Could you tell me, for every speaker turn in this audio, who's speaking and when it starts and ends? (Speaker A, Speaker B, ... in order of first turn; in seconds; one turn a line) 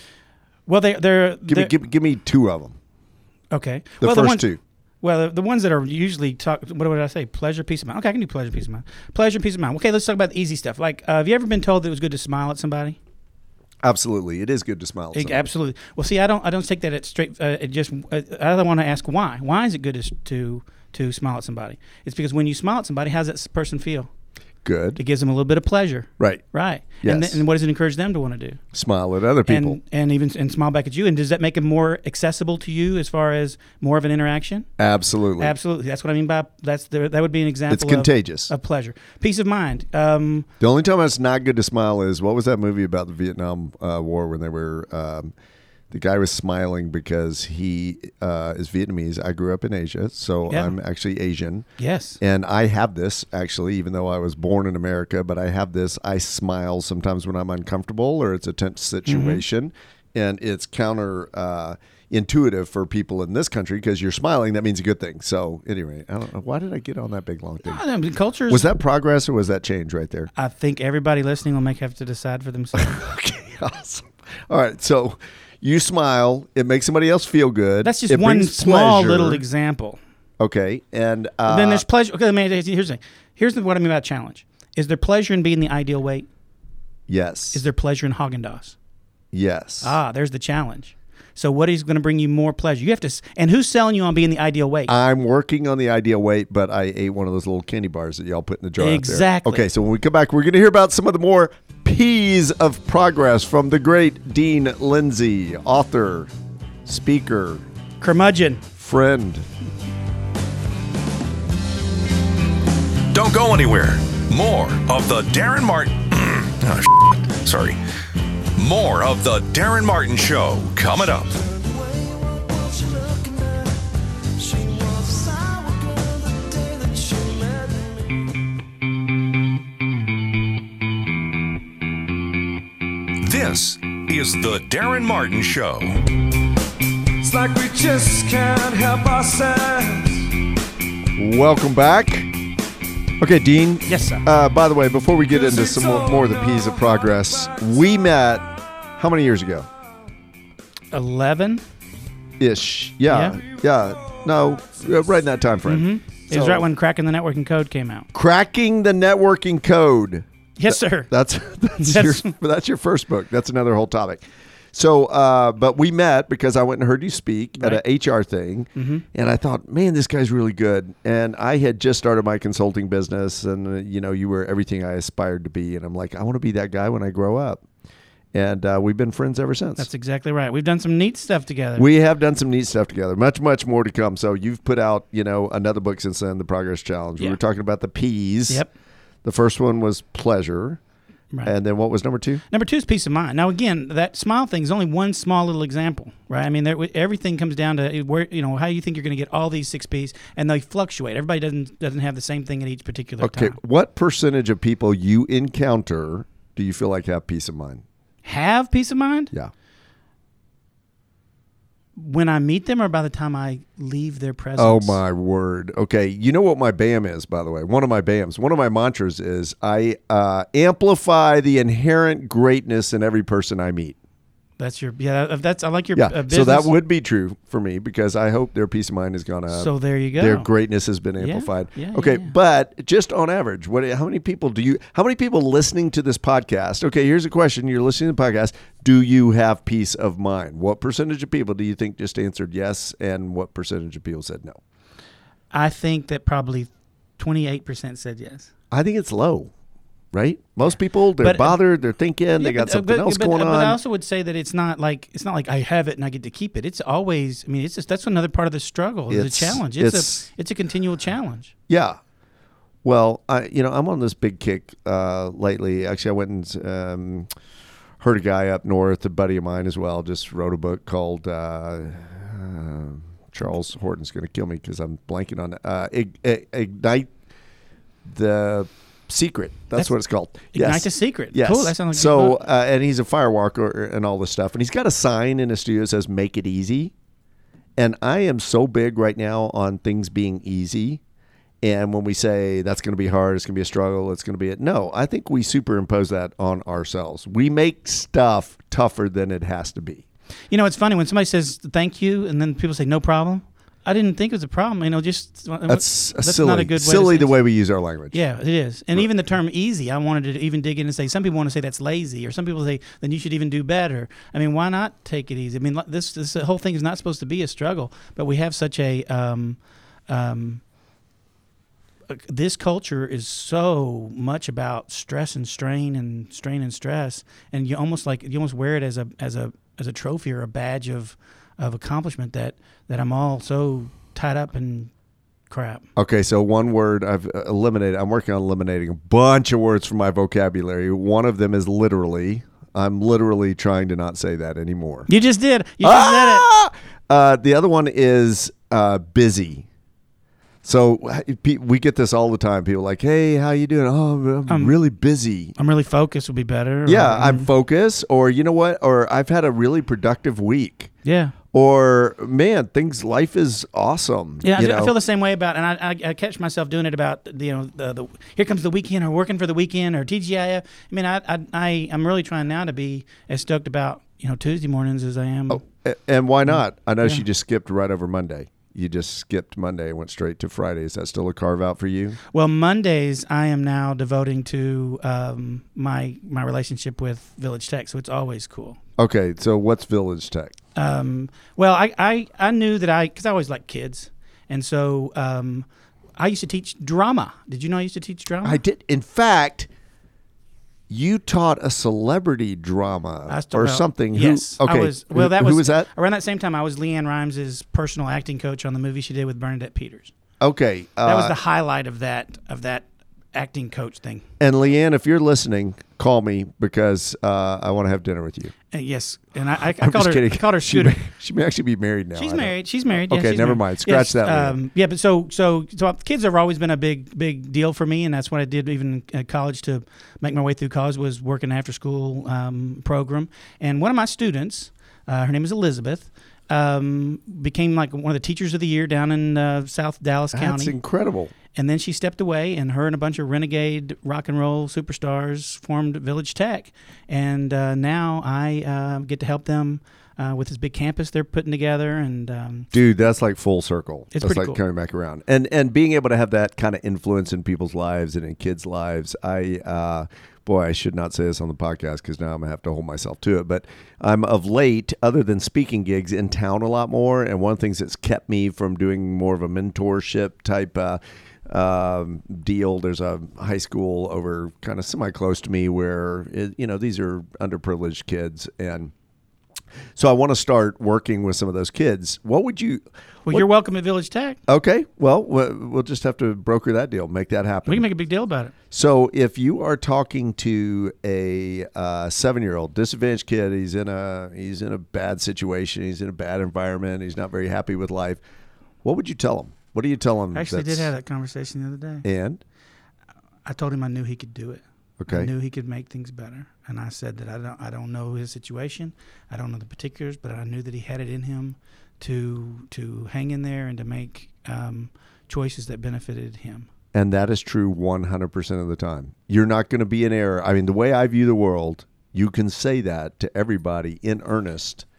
Speaker A: 0.7-1.7
Speaker B: 1.5-2.8
Speaker A: 3.5-4.5
Speaker B: 4.0-4.6
Speaker A: 5.0-13.0
Speaker B: 13.8-15.4
Speaker A: 15.1-24.1
Speaker B: 24.6-25.0
Speaker A: 25.0-28.6
Speaker B: 26.2-26.4
Speaker B: 27.0-27.4
Speaker B: 28.7-29.8
Speaker A: 29.5-34.7
Speaker B: 34.8-35.6
Speaker A: 35.4-40.5
Speaker B: 37.7-38.5
Speaker B: 40.6-45.3
Speaker B: 45.9-51.7
Speaker A: 50.5-50.7
Speaker A: 51.8-52.2
Speaker B: 52.2-67.8
Speaker A: 59.1-59.4
Speaker A: 67.7-68.7
Speaker B: 68.5-70.3
Speaker A: 70.4-73.0
Speaker B: 72.8-79.4
Speaker A: 77.8-80.0
Speaker B: 80.4-81.8
Speaker A: 81.5-86.3
Speaker B: 87.1-87.7
Speaker A: 87.5-88.8
Speaker B: 89.3-90.0
Speaker A: 89.8-94.9
Speaker B: 94.9-106.3
Speaker A: 98.8-99.7
Speaker B: 106.8-107.7
Speaker A: 108.0-108.6
Speaker B: 108.8-109.5
Speaker C: 113.1-117.8
Speaker C: 118.6-121.4
Speaker D: 121.5-123.7
Speaker D: 124.4-127.9
Speaker C: 133.2-136.0
Speaker D: 137.2-140.3
Speaker B: 141.2-142.3
Speaker B: 143.2-149.7
Speaker A: 143.9-144.2
Speaker D: 145.3-146.9
Speaker A: 150.9-151.6
Speaker B: 152.4-156.7
Speaker A: 153.1-153.4
Speaker A: 155.7-158.1
Speaker B: 158.1-177.6
Speaker A: 160.6-161.1
Speaker A: 161.8-162.3
Speaker A: 167.6-167.8
Speaker A: 168.8-169.1
Speaker B: 178.3-179.9
Speaker A: 179.8-181.9
Speaker B: 181.8-188.6
Speaker B: 189.2-190.8
Speaker B: 191.4-192.4
Speaker A: 192.5-203.6
Speaker B: 203.2-207.8
Speaker A: 208.2-209.3
Speaker A: 212.0-215.0
Speaker B: 214.6-224.0
Speaker A: 224.6-226.8
Speaker B: 225.9-244.6
Speaker A: 229.5-230.5
Speaker A: 231.2-232.3
Speaker A: 245.5-248.5
Speaker B: 248.7-249.5
Speaker B: 250.1-253.8
Speaker A: 251.2-251.6
Speaker A: 252.4-261.5
Speaker B: 259.1-260.3
Speaker B: 261.7-262.0
Speaker B: 262.8-267.3
Speaker B: 268.0-277.1
Speaker B: 278.1-286.9
Speaker A: 280.5-282.4
Speaker B: 287.8-291.0
Speaker B: 291.6-300.1
Speaker A: 300.5-307.4
Speaker B: 305.7-308.2
Speaker A: 308.1-320.6
Speaker A: 322.1-334.9
Speaker A: 335.5-335.9
Speaker B: 336.0-345.1
Speaker A: 345.1-346.5
Speaker B: 345.8-349.7
Speaker B: 350.6-355.6
Speaker A: 354.5-354.8
Speaker A: 355.6-357.5
Speaker B: 356.9-360.9
Speaker A: 361.1-361.4
Speaker B: 361.5-364.9
Speaker A: 364.4-375.6
Speaker B: 375.5-382.2
Speaker A: 376.5-377.2
Speaker A: 382.3-388.8
Speaker B: 389.0-390.5
Speaker A: 390.8-395.7
Speaker A: 396.2-398.6
Speaker B: 398.4-399.7
Speaker B: 400.9-405.9
Speaker A: 403.3-410.1
Speaker B: 410.4-411.4
Speaker A: 411.1-414.2
Speaker B: 414.4-418.5
Speaker A: 418.7-421.0
Speaker B: 419.8-424.6
Speaker A: 422.2-440.8
Speaker B: 440.3-441.3
Speaker A: 441.5-452.7
Speaker B: 452.7-478.9
Speaker A: 454.1-454.6
Speaker B: 480.0-483.5
Speaker A: 483.3-484.4
Speaker B: 484.5-487.9
Speaker A: 487.7-488.5
Speaker B: 488.7-498.2
Speaker B: 498.8-500.9
Speaker A: 500.3-502.1
Speaker B: 502.0-502.4
Speaker A: 503.5-516.7
Speaker B: 505.0-505.3
Speaker B: 516.9-524.9